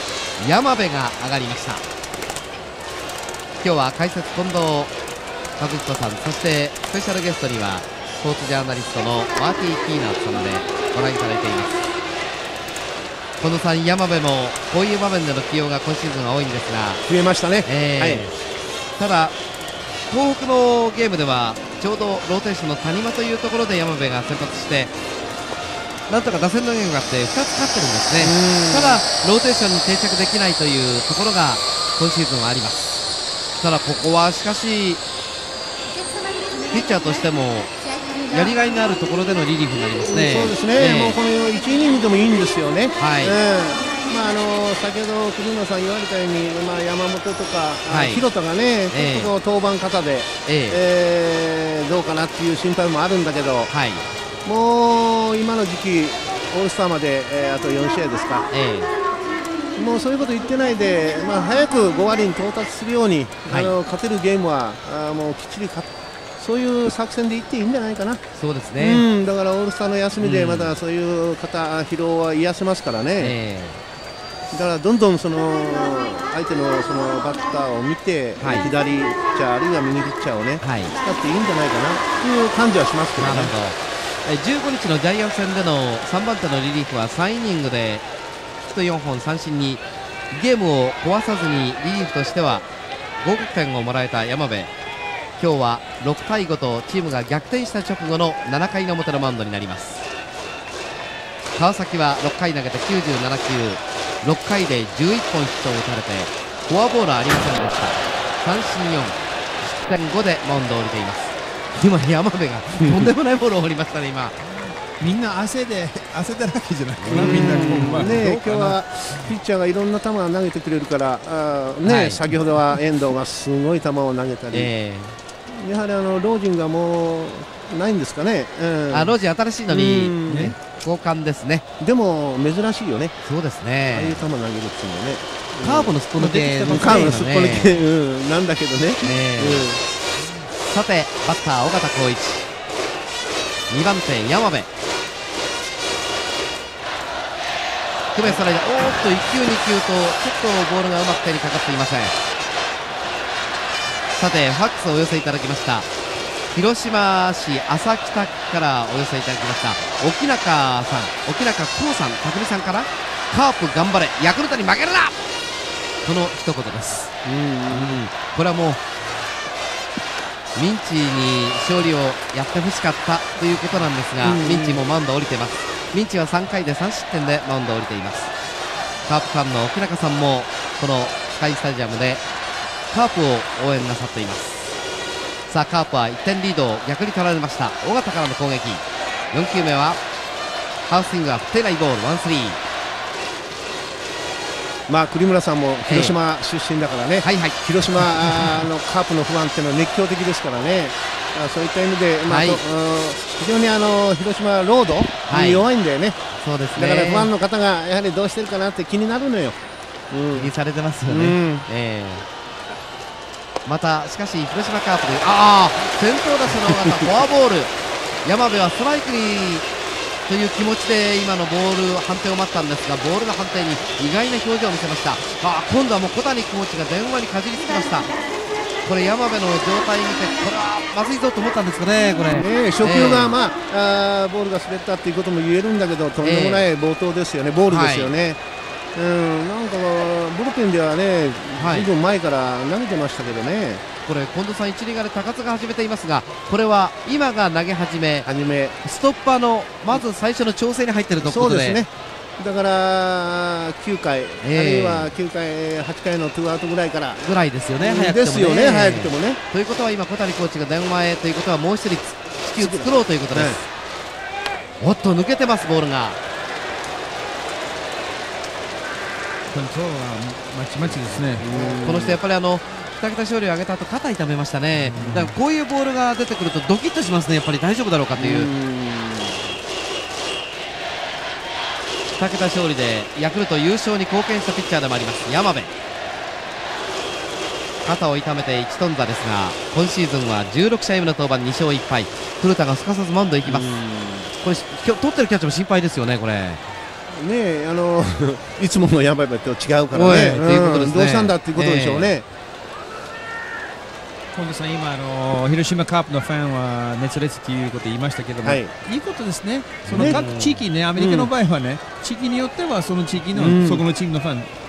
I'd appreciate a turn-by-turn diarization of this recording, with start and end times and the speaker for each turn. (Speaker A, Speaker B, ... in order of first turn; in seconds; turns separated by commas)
Speaker A: 0.4-1.8, Speaker A: 3.6-4.9, Speaker A: 5.6-11.9, Speaker A: 13.4-17.0, Speaker B: 17.1-18.3, Speaker A: 17.6-18.3, Speaker A: 19.0-19.3, Speaker A: 20.1-24.9, Speaker A: 26.1-35.0, Speaker B: 28.2-29.0, Speaker A: 36.7-41.2, Speaker B: 40.1-53.7, Speaker A: 43.0-43.4, Speaker A: 47.9-48.2, Speaker A: 48.9-49.3, Speaker A: 50.5-50.8, Speaker A: 53.7-54.1, Speaker B: 54.4-58.5, Speaker A: 58.5-58.9, Speaker B: 59.8-65.9, Speaker A: 63.5-63.7, Speaker B: 66.4-68.2, Speaker A: 68.3-69.0, Speaker B: 68.8-73.3, Speaker A: 70.2-70.8, Speaker A: 73.2-73.8, Speaker B: 74.5-83.5, Speaker A: 78.4-78.7, Speaker A: 80.6-81.0, Speaker A: 83.2-88.0, Speaker A: 88.6-92.6, Speaker A: 93.2-94.7, Speaker A: 95.4-100.0, Speaker A: 101.5-114.4, Speaker C: 115.0-119.3, Speaker A: 117.0-118.2, Speaker B: 117.1-124.7, Speaker A: 121.8-122.2, Speaker A: 124.5-125.2, Speaker B: 125.5-129.1, Speaker A: 128.9-131.6, Speaker B: 129.7-130.6, Speaker C: 130.3-130.6, Speaker B: 131.8-133.2, Speaker A: 133.2-134.2, Speaker B: 133.9-139.8, Speaker A: 135.6-137.7, Speaker C: 136.2-137.2, Speaker A: 139.0-139.7, Speaker A: 140.6-142.4, Speaker A: 143.7-144.7, Speaker A: 148.1-152.1, Speaker A: 154.1-155.9, Speaker A: 156.5-165.2, Speaker A: 166.0-167.1, Speaker B: 167.2-168.0, Speaker A: 167.7-168.8, Speaker A: 170.5-178.3, Speaker B: 174.2-174.8, Speaker A: 179.1-182.2, Speaker A: 182.9-184.8, Speaker A: 185.5-190.0, Speaker A: 190.8-192.6, Speaker B: 194.9-206.2, Speaker A: 195.8-196.2, Speaker A: 197.2-198.6, Speaker A: 202.3-202.6, Speaker A: 205.3-205.7, Speaker A: 206.4-207.3, Speaker B: 206.7-209.6, Speaker B: 210.1-210.5, Speaker A: 210.3-212.2, Speaker B: 211.1-211.7, Speaker A: 213.6-217.7, Speaker A: 218.2-219.7, Speaker A: 220.3-228.1, Speaker A: 228.8-233.3, Speaker B: 232.3-238.4, Speaker A: 236.2-236.7, Speaker A: 237.7-238.1, Speaker B: 238.9-243.8, Speaker A: 241.6-241.9, Speaker A: 244.0-248.3, Speaker B: 248.2-248.8, Speaker A: 248.8-251.8, Speaker B: 251.2-257.2, Speaker A: 254.4-255.1, Speaker A: 257.2-263.7, Speaker B: 257.8-259.4, Speaker B: 262.6-263.6, Speaker A: 264.8-266.2, Speaker C: 269.5-271.4, Speaker A: 270.8-278.5, Speaker B: 271.4-272.2, Speaker C: 274.8-275.3, Speaker B: 278.1-279.5, Speaker A: 282.1-285.7, Speaker A: 287.8-293.8, Speaker B: 293.4-294.3, Speaker A: 294.3-296.6, Speaker B: 297.1-302.2, Speaker A: 299.9-302.1, Speaker C: 304.3-314.5, Speaker B: 308.4-308.7, Speaker A: 309.9-310.6, Speaker B: 309.9-310.2, Speaker B: 310.9-311.3, Speaker B: 313.3-313.8